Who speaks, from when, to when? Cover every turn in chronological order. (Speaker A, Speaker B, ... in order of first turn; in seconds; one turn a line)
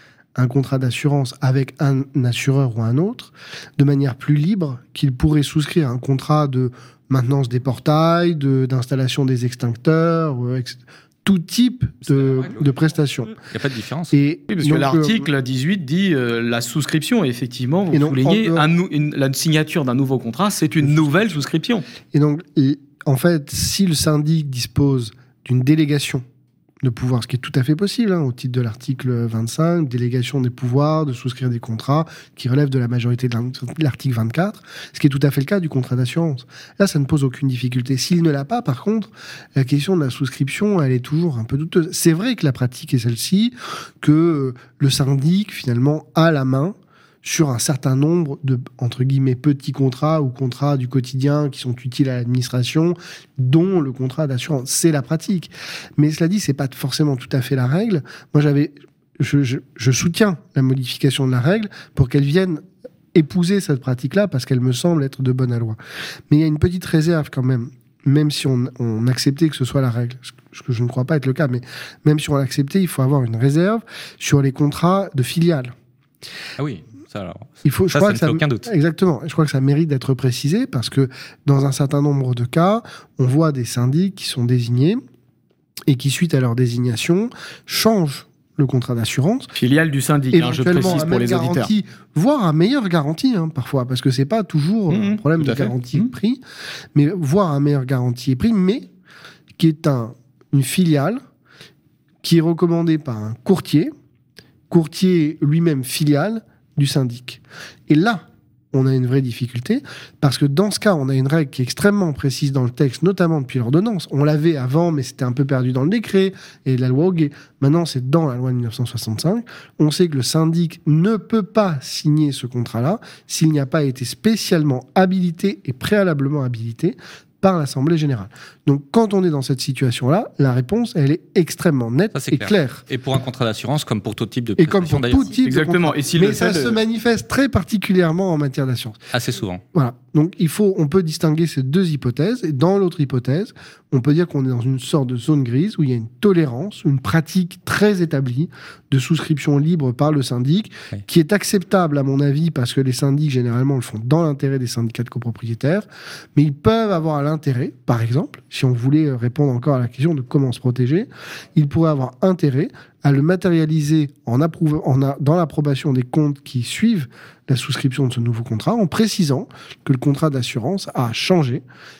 Speaker A: 0.3-13.3
Speaker B: 12.1-12.7
Speaker B: 13.4-14.2
Speaker A: 14.1-15.2
Speaker C: 14.5-21.9
Speaker A: 17.9-18.6
Speaker A: 22.1-26.2
Speaker A: 26.8-62.6
Speaker A: 63.1-65.8
Speaker A: 66.3-75.7
Speaker B: 76.6-78.7
Speaker A: 77.6-85.0
Speaker A: 85.9-89.5
Speaker C: 89.5-91.7
Speaker A: 90.3-96.4
Speaker C: 94.9-96.1
Speaker A: 96.9-98.9
Speaker A: 99.6-101.2
Speaker A: 102.2-103.9
Speaker A: 104.7-132.8
Speaker B: 132.1-135.3
Speaker A: 134.6-139.0
Speaker C: 135.4-136.8
Speaker B: 139.1-139.6
Speaker A: 139.7-171.6